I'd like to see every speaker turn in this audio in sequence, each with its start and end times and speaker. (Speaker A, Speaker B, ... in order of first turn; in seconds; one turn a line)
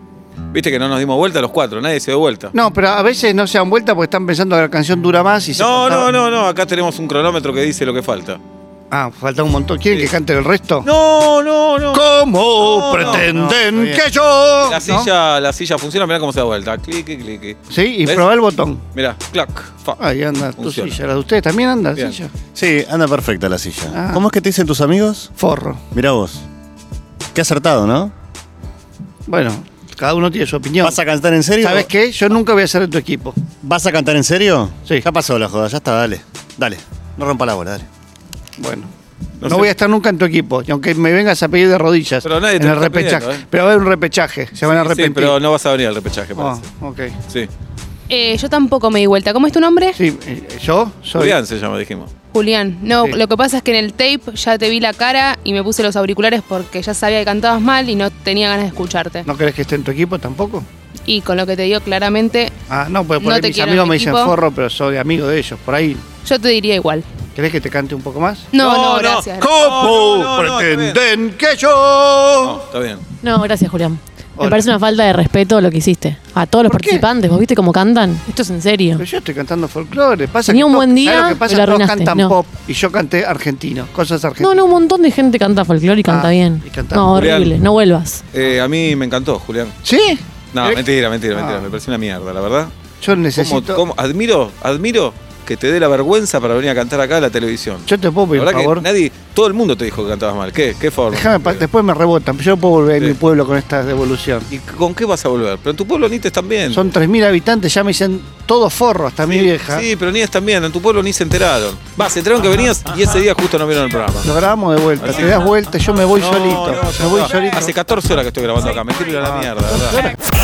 Speaker A: 0.5-2.5
Speaker B: 2.5-6.1
Speaker A: 5.5-8.4
Speaker B: 8.9-10.9
Speaker A: 10.8-13.3
Speaker B: 11.9-15.1
Speaker C: 12.9-14.0
Speaker A: 14.6-18.2
Speaker B: 17.7-18.8
Speaker A: 18.9-20.0
Speaker B: 20.0-22.3
Speaker A: 20.6-21.0
Speaker C: 22.5-25.3
Speaker B: 23.9-24.2
Speaker B: 25.4-25.8
Speaker C: 25.9-26.4
Speaker C: 27.3-28.1
Speaker B: 29.3-31.0
Speaker C: 30.8-31.9
Speaker B: 31.6-33.4
Speaker C: 33.6-37.9
Speaker B: 38.6-38.9
Speaker A: 39.4-39.7
Speaker B: 39.4-45.4
Speaker A: 42.2-43.4
Speaker A: 44.6-46.7
Speaker B: 46.4-47.1
Speaker D: 48.1-50.0
Speaker B: 50.0-51.4
Speaker A: 51.2-52.1
Speaker D: 52.3-59.2
Speaker B: 59.2-60.7
Speaker D: 61.0-62.5
Speaker B: 62.7-66.0
Speaker D: 63.2-64.3
Speaker D: 66.2-67.1
Speaker B: 67.3-68.5
Speaker D: 68.5-69.5
Speaker A: 68.6-71.0
Speaker B: 69.3-72.6
Speaker A: 72.4-73.0
Speaker E: 73.2-79.0
Speaker B: 74.4-74.7
Speaker B: 76.7-77.1
Speaker B: 79.0-84.6
Speaker E: 80.5-82.4
Speaker E: 84.4-88.2
Speaker B: 86.0-87.3
Speaker A: 87.1-87.6
Speaker A: 88.3-89.8
Speaker B: 89.8-90.8
Speaker A: 90.5-92.7
Speaker B: 91.3-91.7
Speaker B: 93.0-93.8
Speaker A: 93.3-101.6
Speaker B: 97.9-98.8
Speaker B: 101.1-104.5
Speaker A: 104.5-106.9
Speaker B: 106.7-109.8
Speaker A: 109.3-114.3
Speaker B: 114.2-117.7
Speaker A: 115.0-120.1
Speaker B: 119.2-119.5